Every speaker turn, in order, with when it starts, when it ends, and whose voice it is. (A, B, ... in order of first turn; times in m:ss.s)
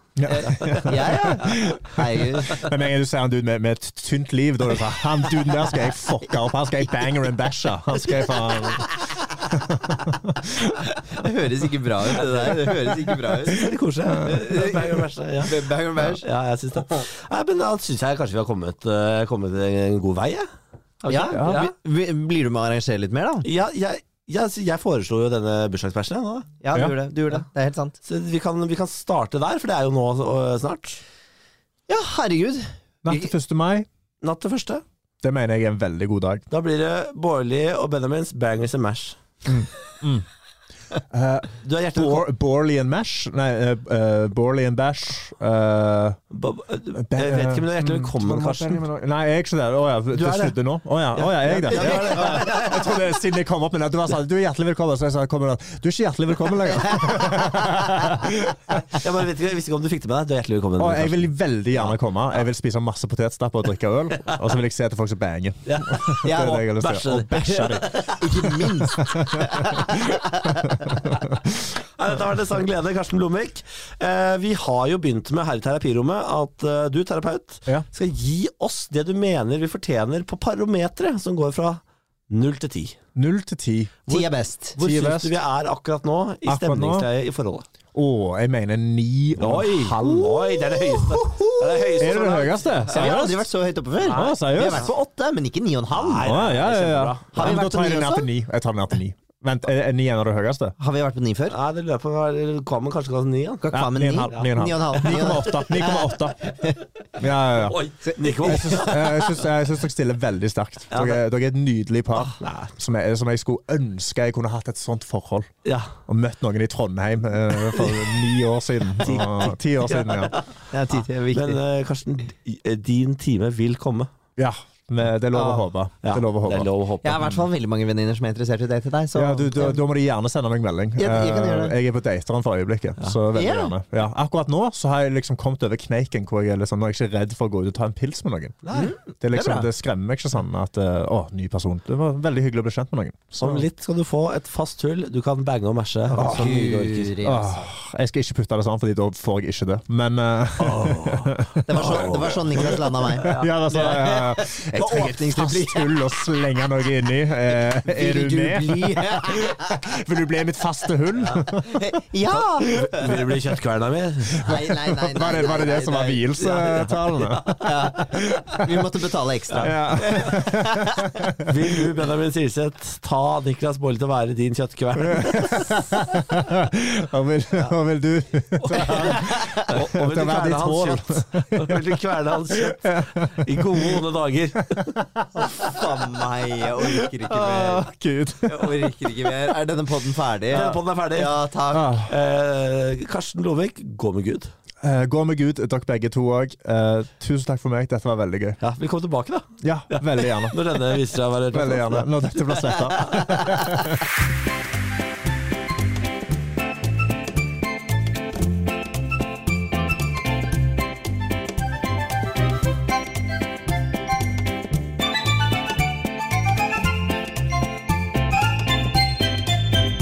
0:00.2-0:10.8 A
0:00.2-0:02.6 B
0:00.4-0:01.0 C
0:08.1-0:09.0 C
0:11.1-0:13.7 B
0:12.1-0:15.6 C
0:13.5-0:14.4 A
0:14.2-0:16.2 B
0:16.2-0:20.5 C
0:21.0-0:21.7 C
0:21.1-0:23.5 B
0:21.3-0:21.7 A
0:23.4-0:26.5 C
0:26.6-0:28.0 B
0:28.0-0:31.0 C
0:31.9-0:33.3 B
0:33.0-0:33.9 A
0:34.2-0:34.8 C
0:35.2-0:36.4 A
0:36.5-0:39.2 C
0:39.4-0:40.3 A
0:41.1-0:46.2 A
0:41.6-0:42.3 C
0:46.3-0:48.8 C
0:47.0-0:59.0 A
0:50.1-0:50.6 C
0:51.1-0:52.8 C
0:58.9-1:01.9 C
1:00.8-1:07.9 A
1:05.6-1:08.6 C
1:06.2-1:11.0 B
1:08.4-1:11.6 A
1:11.8-1:23.0 C
1:23.1-1:24.1 A
1:24.1-1:27.6 C
1:24.1-1:24.8 B
1:24.8-1:25.4 A
1:26.4-1:27.1 A
1:27.9-1:33.5 A
1:29.4-1:33.2 C
1:32.9-1:36.4 B
1:34.0-1:34.9 C
1:34.1-1:34.9 A
1:35.9-1:37.6 C
1:36.2-1:40.7 A
1:37.3-1:38.3 B
1:40.8-1:41.6 B
1:41.5-1:43.6 C
1:43.6-1:46.1 B
1:43.7-1:46.5 A
1:44.3-1:45.5 C
1:47.2-1:47.8 A
1:47.6-1:49.5 C
1:48.0-1:48.9 B
1:48.4-1:55.5 A
1:50.9-1:51.2 C
1:52.2-1:52.7 C
1:55.6-1:55.9 C
1:56.1-2:00.4 A
1:57.7-1:58.2 C
1:59.0-2:04.1 C
2:00.7-2:01.6 B
2:04.4-2:06.7 A
2:05.3-2:05.6 B
2:06.0-2:07.4 C
2:07.0-2:09.8 B
2:09.1-2:18.6 A
2:11.0-2:11.8 B
2:13.3-2:13.7 B
2:18.6-2:18.9 C
2:18.7-2:19.7 B
2:19.2-2:23.7 A
2:23.4-2:27.1 C
2:26.2-2:26.6 A
2:26.2-2:27.7 B
2:27.2-2:43.3 A
2:30.6-2:33.9 C
2:31.6-2:36.0 B
2:37.7-2:39.8 B
2:41.6-2:43.2 B
2:42.7-2:44.5 C
2:44.3-2:48.8 A
2:44.4-2:46.8 B
2:46.4-2:47.7 C
2:47.6-2:51.3 B
2:49.6-2:51.6 A
2:51.4-2:55.8 C
2:55.0-3:04.0 A
2:58.7-2:59.8 B
2:58.7-3:05.0 C
3:04.5-3:05.7 A
3:05.4-3:07.9 B
3:06.8-3:09.5 A
3:08.4-3:12.0 B
3:10.5-3:11.4 C
3:11.7-3:12.1 A
3:12.1-3:14.5 C
3:14.8-3:18.6 A
3:18.6-3:23.6 C
3:19.6-3:20.6 A
3:21.5-3:24.0 A